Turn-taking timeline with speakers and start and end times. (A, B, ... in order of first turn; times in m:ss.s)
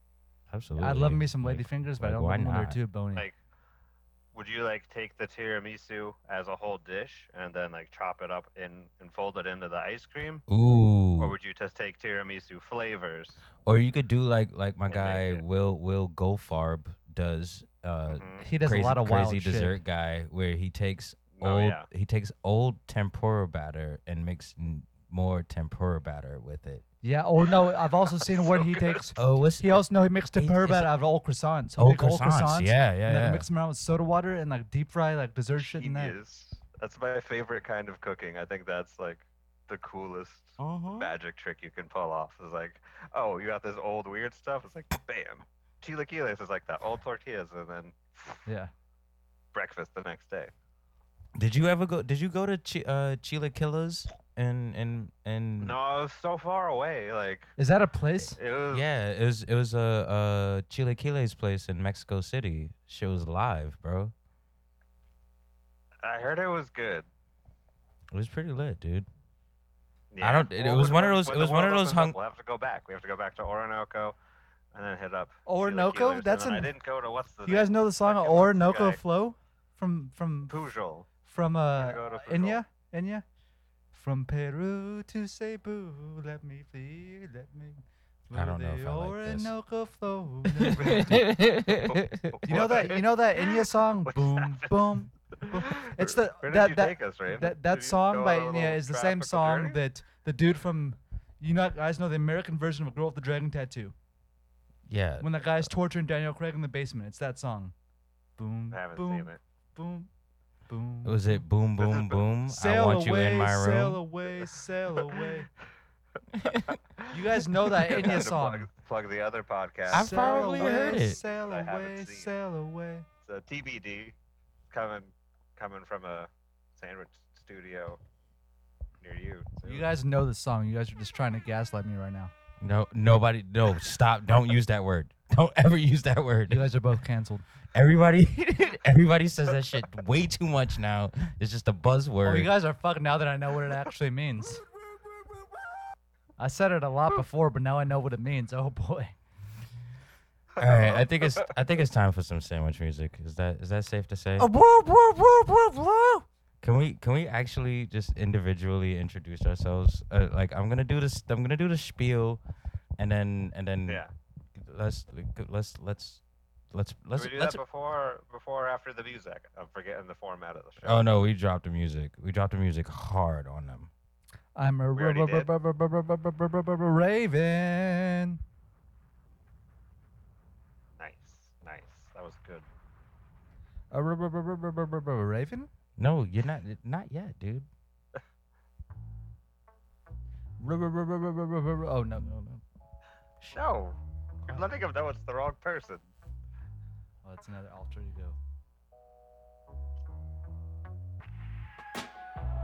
0:00.5-0:02.8 A
0:00.8-0:03.3 B
0:04.3-0:10.4 C
0:10.5-0:11.4 A
0:11.2-0:13.4 C
0:13.6-0:26.8 A
0:14.9-0:15.4 C
0:18.1-0:18.4 C
0:18.4-0:19.8 B
0:21.4-0:21.9 C
0:27.0-0:36.2 B
0:28.3-0:29.0 C
0:29.2-0:29.8 A
0:30.4-0:30.9 A
0:31.8-0:33.5 A
0:35.6-0:48.4 C
0:48.5-0:48.7 B
0:49.5-0:50.5 C
0:51.4-0:55.8 A
0:55.6-0:57.5 C
0:57.6-0:58.4 B
0:58.4-0:58.9 C
0:58.7-1:04.1 A
1:06.0-1:07.1 C
1:08.1-1:09.1 A
1:10.1-1:14.2 C
1:10.2-1:12.2 A
1:14.7-1:19.0 C
1:15.5-1:16.7 B
1:17.4-1:20.6 B
1:20.5-1:21.1 C
1:21.3-1:23.2 B
1:21.8-1:22.6 C
1:23.9-1:31.2 B
1:28.3-1:29.5 A
1:30.6-1:32.4 A
1:30.8-1:33.0 C
1:32.4-1:43.9 B
1:34.1-1:34.7 C
1:35.4-1:39.8 C
1:44.9-1:45.7 A
1:45.2-1:47.7 B
1:48.4-1:50.1 B
1:48.7-1:49.4 C
1:50.7-1:51.4 B
1:51.0-1:54.0 A
1:51.8-1:52.2 C
1:52.5-1:55.5 B
1:56.3-1:56.8 A
1:57.1-1:58.7 B
1:57.9-2:02.3 C
1:59.9-2:01.2 A
1:59.9-2:03.1 B
2:03.2-2:04.2 C
2:04.7-2:08.0 C
2:09.0-2:09.9 C
2:09.6-2:12.3 B
2:12.6-2:16.7 A
2:16.5-2:17.4 B
2:17.7-2:22.5 A
2:22.2-2:24.6 B
2:26.4-2:29.2 B
2:30.6-2:34.5 A
2:30.6-2:31.1 C
2:34.4-2:36.2 B
2:36.6-2:42.4 A
2:43.0-2:44.0 A
2:44.6-2:46.2 A
2:46.7-2:47.6 A
2:47.2-2:51.0 C
2:50.8-2:53.9 A
2:54.6-2:58.4 B
2:55.0-2:55.5 C
3:01.0-3:02.7 C
3:03.9-3:05.7 B
3:06.0-3:07.7 A
3:10.6-3:12.6 B
3:13.4-3:16.0 C
3:17.2-3:18.4 B